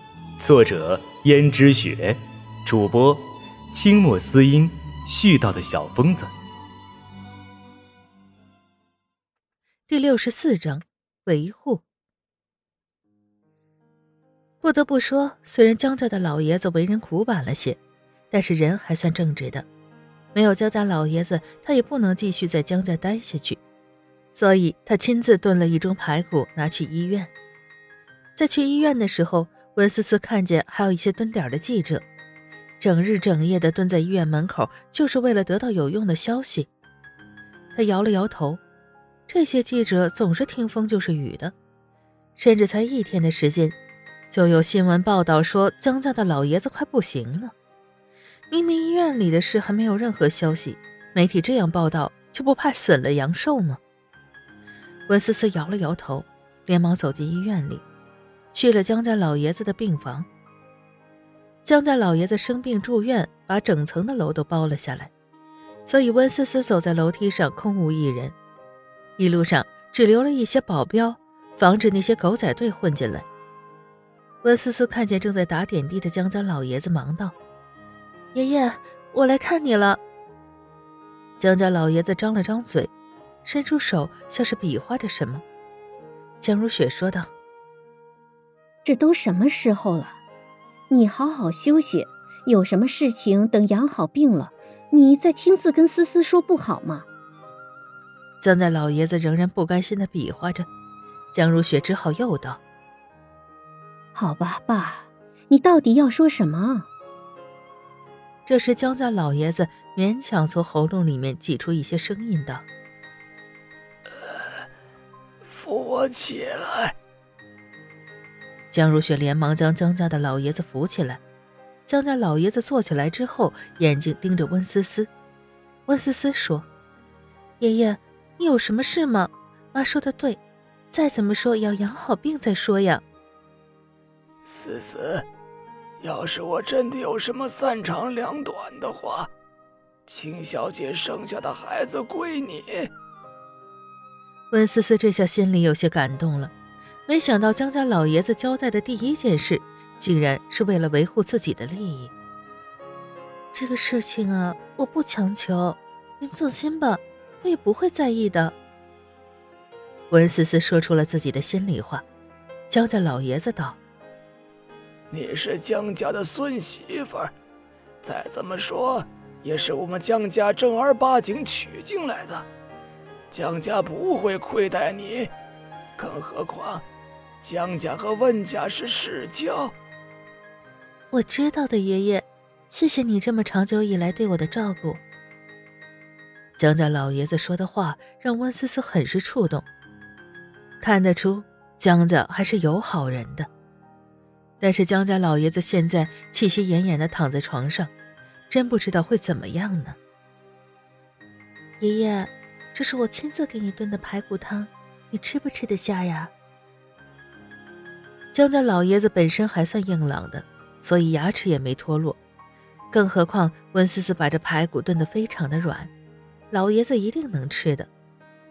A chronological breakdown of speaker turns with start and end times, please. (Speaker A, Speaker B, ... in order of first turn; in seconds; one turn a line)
Speaker A: 0.4-6.3
Speaker B: 9.9-11.8
Speaker B: 14.6-17.8
Speaker B: 18.3-19.7
Speaker B: 20.4-23.6
Speaker B: 24.3-27.3
Speaker B: 28.4-32.1
Speaker B: 32.8-36.7
Speaker B: 37.8-38.6
Speaker B: 39.3-41.5
Speaker B: 42.4-43.8
Speaker B: 44.3-47.5
Speaker B: 48.5-53.8
Speaker B: 55.1-57.8
Speaker B: 58.5-60.3
Speaker B: 61.6-65.1
Speaker B: 65.9-68.3
Speaker B: 69.2-73.3
Speaker B: 74.4-77.3
Speaker B: 78.3-80.0
Speaker B: 81.4-82.9
Speaker B: 83.5-85.4
Speaker B: 86.4-87.3
Speaker C: 88.8-90.2
Speaker C: 90.9-97.1
Speaker B: 98.4-100.7
Speaker B: 101.3-102.6
Speaker C: 104.2-106.9
Speaker B: 108.5-112.6
Speaker D: 114.2-114.6
Speaker D: 115.4-117.0
Speaker B: 118.7-121.2
Speaker B: 121.9-125.1
Speaker B: 125.9-126.7
Speaker B: 127.6-130.4
Speaker B: 130.9-133.0
Speaker D: 134.4-135.2
Speaker D: 136.0-139.3
Speaker D: 140.1-142.9
Speaker B: 144.5-146.5
Speaker B: 147.1-152.1
Speaker B: 153.5-158.6
Speaker B: 160.1-162.1
Speaker B: 162.7-163.8
Speaker D: 165.1-167.3
Speaker D: 168.0-172.5
Speaker D: 173.3-175.3
Speaker D: 176.0-176.8
Speaker D: 177.4-179.7
Speaker B: 181.1-185.0
Speaker B: 186.6-189.7
Speaker B: 190.8-193.5
Speaker B: 194.6-197.9
Speaker B: 198.5-200.0
Speaker B: 201.8-206.3
Speaker B: 208.3-212.2
Speaker B: 212.9-215.9
Speaker B: 216.5-217.9